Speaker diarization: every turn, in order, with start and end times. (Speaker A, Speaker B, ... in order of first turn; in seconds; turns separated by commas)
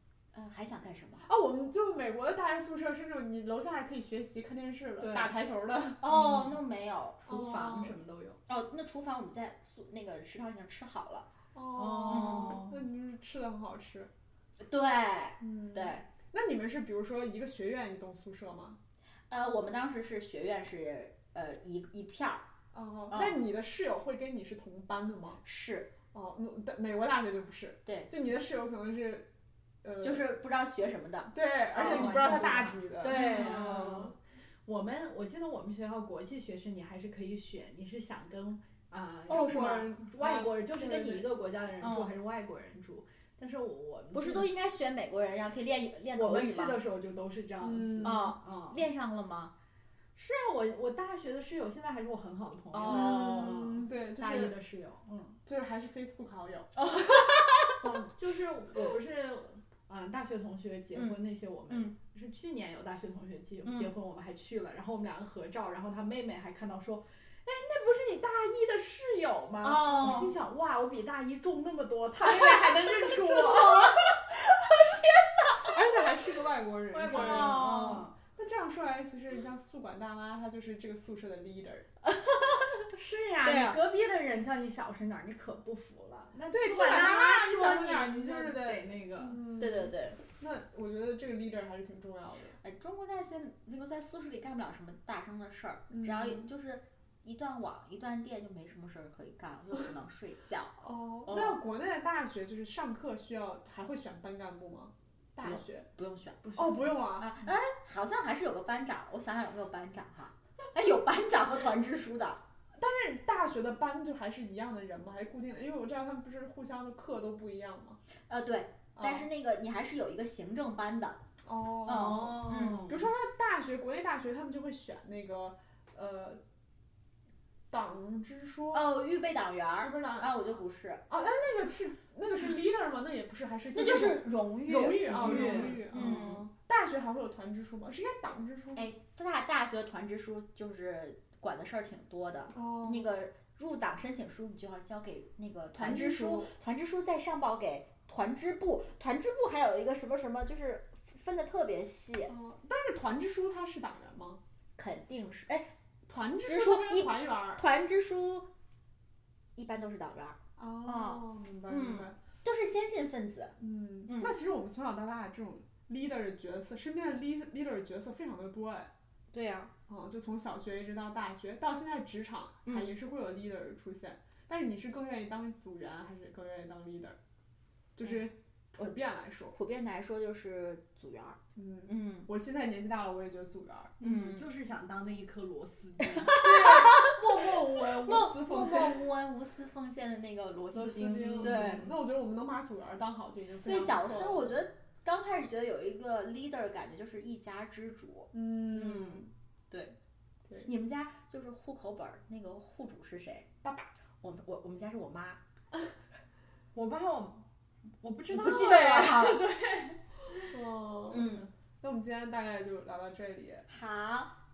Speaker A: 0.3-1.3, Speaker B: 1.2-6.4, Speaker C: 5.0-5.3, Speaker A: 6.0-7.2, Speaker C: 6.1-6.5, Speaker C: 7.2-8.4, Speaker B: 7.2-8.0, Speaker A: 8.5-11.3, Speaker B: 11.5-14.1, Speaker C: 11.7-12.8, Speaker A: 12.1-12.6, Speaker A: 14.6-16.0, Speaker B: 15.4-18.8, Speaker A: 19.3-22.5, Speaker B: 22.7-25.4, Speaker A: 23.1-23.4, Speaker A: 25.4-25.9, Speaker B: 26.1-29.3, Speaker B: 29.8-30.3, Speaker A: 30.0-32.2, Speaker B: 31.3-34.1, Speaker C: 31.7-34.1, Speaker A: 33.0-34.0, Speaker C: 34.6-44.5, Speaker B: 39.3-41.3, Speaker A: 41.8-42.1, Speaker A: 44.1-46.8, Speaker C: 46.1-48.8, Speaker B: 47.6-48.3, Speaker A: 48.0-49.5, Speaker C: 50.1-53.6, Speaker A: 52.7-53.8, Speaker B: 52.9-54.5, Speaker C: 54.2-55.4, Speaker B: 55.4-56.7, Speaker A: 56.8-57.8, Speaker C: 57.8-74.2, Speaker A: 61.7-61.9, Speaker A: 63.6-63.9, Speaker A: 69.6-70.3, Speaker A: 72.2-75.8, Speaker B: 75.6-81.9, Speaker C: 76.9-78.1, Speaker A: 77.1-78.1, Speaker A: 82.0-82.9, Speaker C: 82.9-89.4, Speaker A: 83.4-83.8, Speaker B: 86.5-92.6, Speaker A: 89.6-90.2, Speaker A: 92.6-101.6, Speaker B: 95.9-96.5, Speaker B: 100.8-105.9, Speaker A: 105.4-112.4, Speaker B: 106.5-107.3, Speaker B: 112.8-118.0, Speaker A: 118.3-121.2, Speaker B: 119.0-119.3, Speaker B: 121.4-126.4, Speaker A: 121.8-122.9, Speaker C: 121.9-123.1, Speaker B: 127.7-129.0, Speaker A: 128.7-131.0, Speaker B: 129.8-138.9, Speaker A: 133.7-136.4, Speaker C: 135.0-135.8, Speaker A: 138.8-152.3, Speaker B: 142.5-143.1, Speaker B: 145.7-146.5, Speaker B: 152.3-154.4, Speaker A: 154.8-155.7, Speaker B: 156.1-157.6, Speaker A: 156.4-158.5, Speaker A: 159.6-164.3, Speaker B: 160.6-162.2, Speaker B: 163.6-168.9, Speaker A: 169.3-169.7, Speaker B: 169.9-177.2, Speaker A: 172.6-172.9, Speaker B: 177.9-179.5, Speaker A: 179.5-182.3, Speaker B: 181.6-183.9, Speaker A: 184.0-184.4, Speaker C: 184.0-186.6, Speaker A: 186.0-191.9, Speaker B: 186.3-189.0, Speaker B: 190.7-194.4, Speaker A: 193.6-199.9, Speaker B: 198.3-199.3, Speaker A: 200.6-203.5, Speaker B: 203.6-203.9, Speaker A: 204.2-205.4, Speaker C: 206.7-207.4, Speaker C: 208.0-210.5, Speaker A: 208.3-209.4, Speaker B: 210.5-213.7, Speaker A: 211.1-211.5, Speaker A: 213.7-214.3